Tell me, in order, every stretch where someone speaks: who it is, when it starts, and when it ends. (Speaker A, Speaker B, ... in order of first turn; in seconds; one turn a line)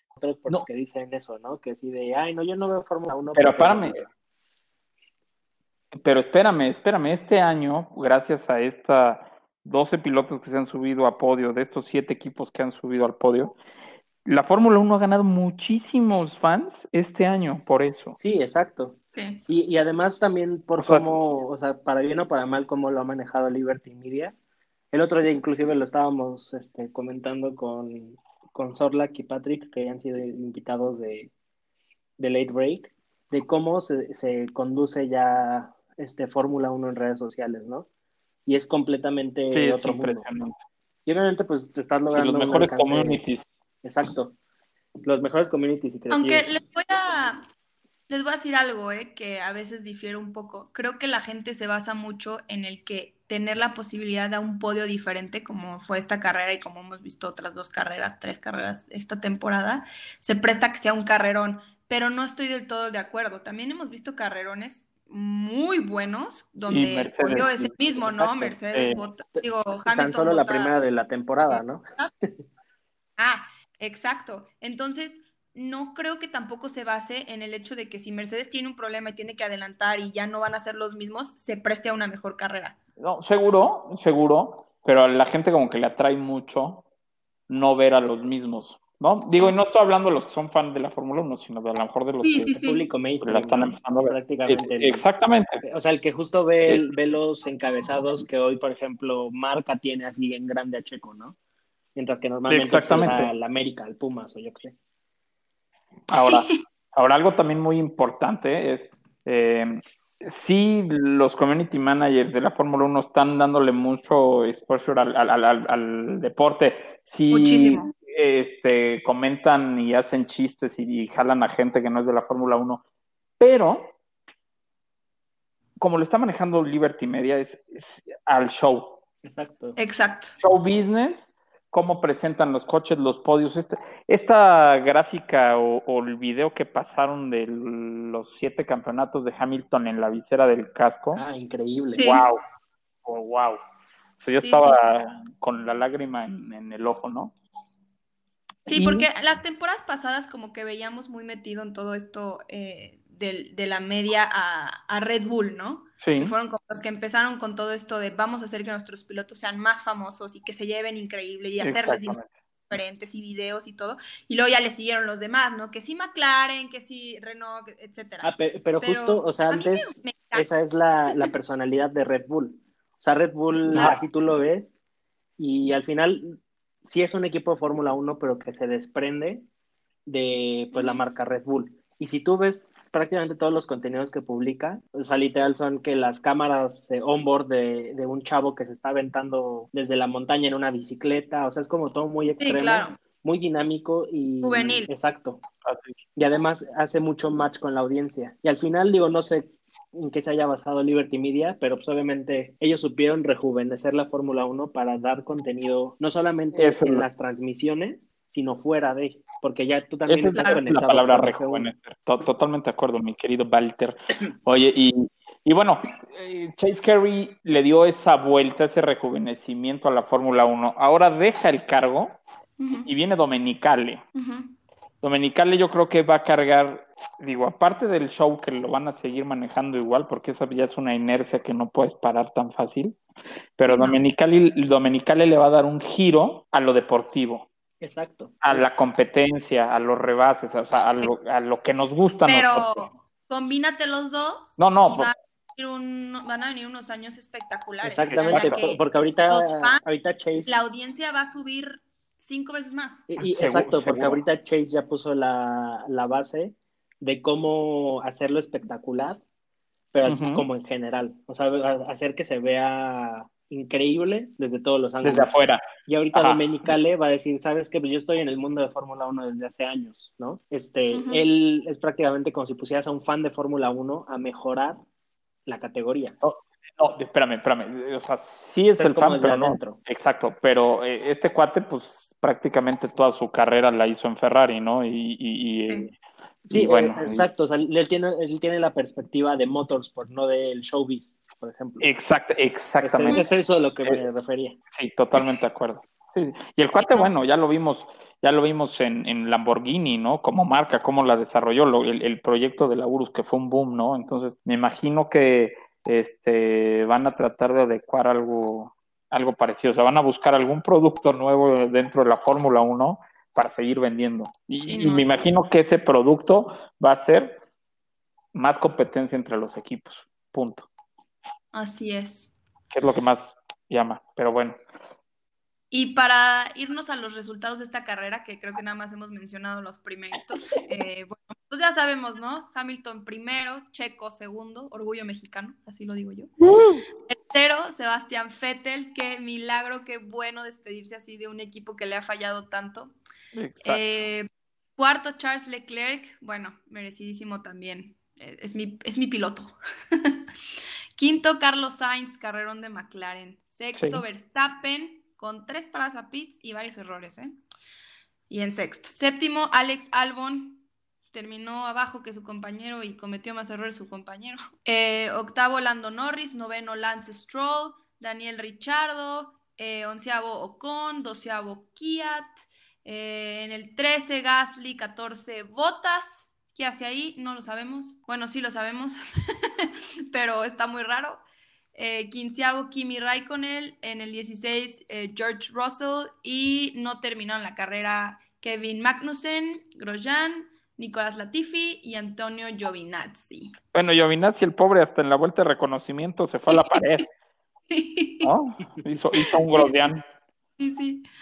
Speaker A: 0.2-4.1
Speaker B: 3.4-4.0
Speaker B: 6.0-13.6
Speaker B: 14.2-18.2
Speaker A: 18.2-24.4
Speaker C: 19.2-19.4
Speaker B: 20.8-21.1
Speaker A: 24.9-31.3
Speaker A: 32.2-37.9
Speaker A: 38.5-40.3
Speaker B: 39.5-40.6
Speaker A: 41.1-43.2
Speaker B: 42.1-43.5
Speaker A: 43.8-44.4
Speaker A: 45.0-46.5
Speaker C: 46.1-47.5
Speaker C: 48.1-70.9
Speaker B: 66.7-67.7
Speaker A: 68.0-68.6
Speaker B: 68.7-69.0
Speaker A: 69.4-71.8
Speaker C: 71.5-72.1
Speaker C: 73.2-82.8
Speaker B: 83.0-86.8
Speaker B: 87.5-92.5
Speaker C: 92.2-92.8
Speaker A: 92.5-95.0
Speaker B: 93.2-95.6
Speaker A: 95.6-101.4
Speaker A: 102.0-104.7
Speaker B: 102.5-103.3
Speaker B: 106.1-122.8
Speaker C: 106.2-106.6
Speaker C: 117.3-117.9
Speaker B: 123.4-124.0
Speaker B: 125.8-129.0
Speaker A: 129.2-129.8
Speaker C: 129.8-130.4
Speaker B: 130.4-141.2
Speaker A: 141.1-142.1
Speaker C: 142.0-142.3
Speaker B: 142.0-142.4
Speaker B: 143.1-143.6
Speaker B: 144.2-147.3
Speaker C: 144.4-144.8
Speaker B: 148.7-149.1
Speaker C: 148.7-168.3
Speaker B: 156.0-156.3
Speaker B: 161.6-162.3
Speaker A: 168.2-174.7
Speaker C: 168.8-170.5
Speaker C: 173.7-174.0
Speaker B: 173.7-174.0
Speaker A: 175.4-179.5
Speaker A: 180.1-195.4
Speaker C: 180.7-181.0
Speaker C: 192.4-193.0
Speaker C: 194.4-194.9
Speaker B: 195.7-195.9
Speaker A: 196.2-211.7
Speaker B: 206.5-207.1
Speaker B: 210.1-222.2
Speaker C: 210.3-210.6
Speaker C: 222.6-222.9
Speaker B: 222.9-224.0
Speaker C: 224.2-224.5
Speaker B: 225.0-233.0
Speaker B: 233.6-237.5
Speaker C: 233.7-234.0
Speaker A: 237.8-238.6
Speaker B: 238.4-242.8
Speaker C: 242.3-249.8
Speaker B: 244.6-245.1
Speaker A: 247.8-250.6
Speaker B: 248.1-248.7
Speaker C: 250.4-253.1
Speaker A: 253.1-259.2
Speaker B: 253.2-254.2
Speaker A: 259.9-265.3
Speaker B: 260.1-260.5
Speaker B: 265.0-266.4
Speaker A: 265.9-274.8
Speaker C: 270.9-271.3
Speaker A: 275.5-276.2
Speaker B: 276.2-285.9
Speaker A: 278.8-279.8
Speaker B: 286.5-287.3
Speaker A: 286.5-291.9
Speaker B: 291.8-293.2
Speaker A: 292.8-294.6
Speaker B: 294.7-317.4
Speaker C: 296.8-297.1
Speaker C: 314.6-315.4
Speaker B: 318.3-320.7
Speaker C: 321.5-322.4
Speaker B: 322.7-324.6
Speaker C: 325.7-336.3
Speaker B: 336.4-336.8
Speaker C: 337.1-342.9
Speaker B: 343.3-343.8
Speaker C: 343.6-350.2
Speaker C: 351.0-357.4
Speaker B: 353.8-354.0
Speaker C: 358.3-372.3
Speaker C: 372.8-381.2
Speaker C: 381.8-393.5
Speaker B: 393.7-397.1
Speaker C: 396.5-396.8
Speaker C: 397.7-398.3
Speaker B: 398.2-400.0
Speaker C: 399.2-399.7
Speaker C: 400.6-401.1